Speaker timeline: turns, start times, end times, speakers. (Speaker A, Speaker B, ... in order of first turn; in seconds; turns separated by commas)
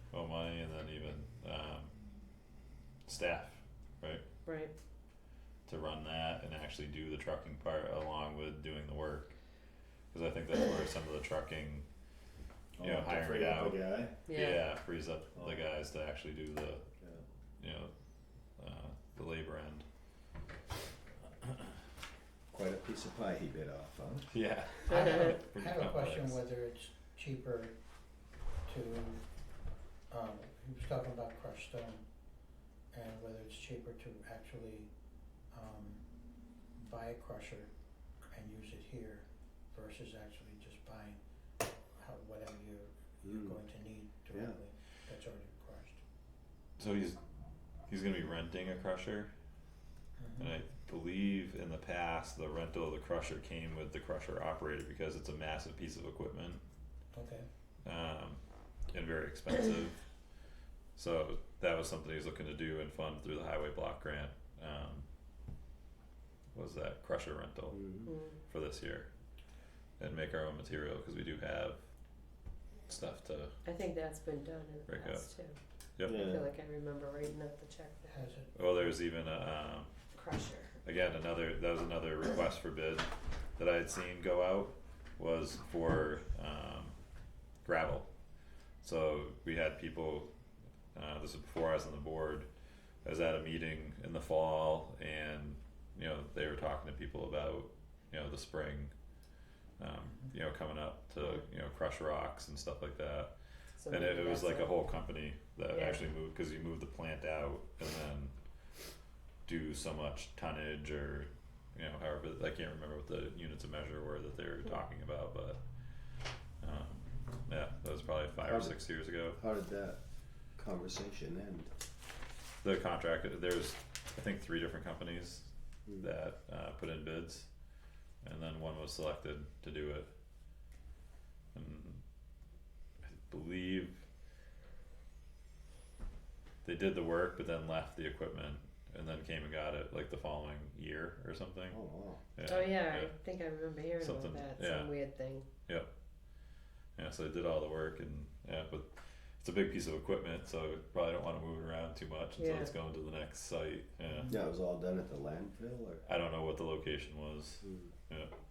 Speaker A: 0.1-1.9, Speaker A: 3.0-4.2, Speaker B: 4.5-4.7, Speaker A: 5.7-9.3, Speaker A: 10.1-11.8, Speaker C: 12.8-14.2, Speaker A: 12.8-16.9, Speaker B: 14.3-14.6, Speaker C: 15.3-15.6, Speaker A: 17.6-17.9, Speaker A: 18.6-19.9, Speaker C: 22.5-24.3, Speaker A: 24.3-26.4, Speaker D: 24.9-27.7, Speaker B: 24.9-25.3, Speaker D: 28.6-29.2, Speaker D: 30.1-32.0, Speaker D: 32.9-34.9, Speaker D: 35.5-36.0, Speaker D: 36.8-37.7, Speaker D: 38.3-41.2, Speaker D: 41.9-46.0, Speaker C: 43.2-43.6, Speaker C: 44.3-44.6, Speaker A: 46.8-47.2, Speaker A: 47.9-49.3, Speaker D: 50.2-50.5, Speaker A: 50.4-56.6, Speaker D: 57.1-57.5, Speaker A: 57.8-60.0, Speaker A: 60.9-65.0, Speaker A: 66.5-69.1, Speaker C: 67.7-68.1, Speaker B: 68.0-68.4, Speaker A: 70.0-71.8, Speaker A: 72.9-73.5, Speaker B: 73.6-78.3, Speaker A: 74.9-75.3, Speaker A: 76.0-76.3, Speaker C: 76.0-76.5, Speaker D: 78.1-78.5, Speaker A: 78.5-79.9, Speaker B: 80.1-80.8, Speaker A: 80.8-87.0, Speaker A: 87.6-88.1, Speaker A: 88.8-90.3, Speaker A: 90.9-92.5, Speaker A: 93.0-98.9, Speaker A: 99.8-103.3, Speaker B: 103.8-104.8, Speaker A: 103.9-108.3, Speaker B: 105.7-106.0, Speaker A: 109.5-115.6, Speaker A: 116.6-119.4, Speaker C: 118.5-118.8, Speaker C: 119.3-120.0, Speaker C: 120.5-121.7, Speaker A: 122.6-125.5, Speaker A: 126.0-127.5, Speaker A: 128.2-130.1, Speaker A: 131.5-132.0, Speaker A: 133.1-134.0, Speaker A: 136.6-141.8, Speaker C: 141.7-142.2, Speaker A: 142.3-143.1, Speaker B: 142.4-145.5, Speaker A: 144.0-144.9, Speaker A: 146.9-154.4, Speaker B: 152.4-152.7, Speaker D: 154.1-154.4, Speaker C: 154.3-156.0, Speaker A: 156.1-158.3, Speaker C: 157.6-157.9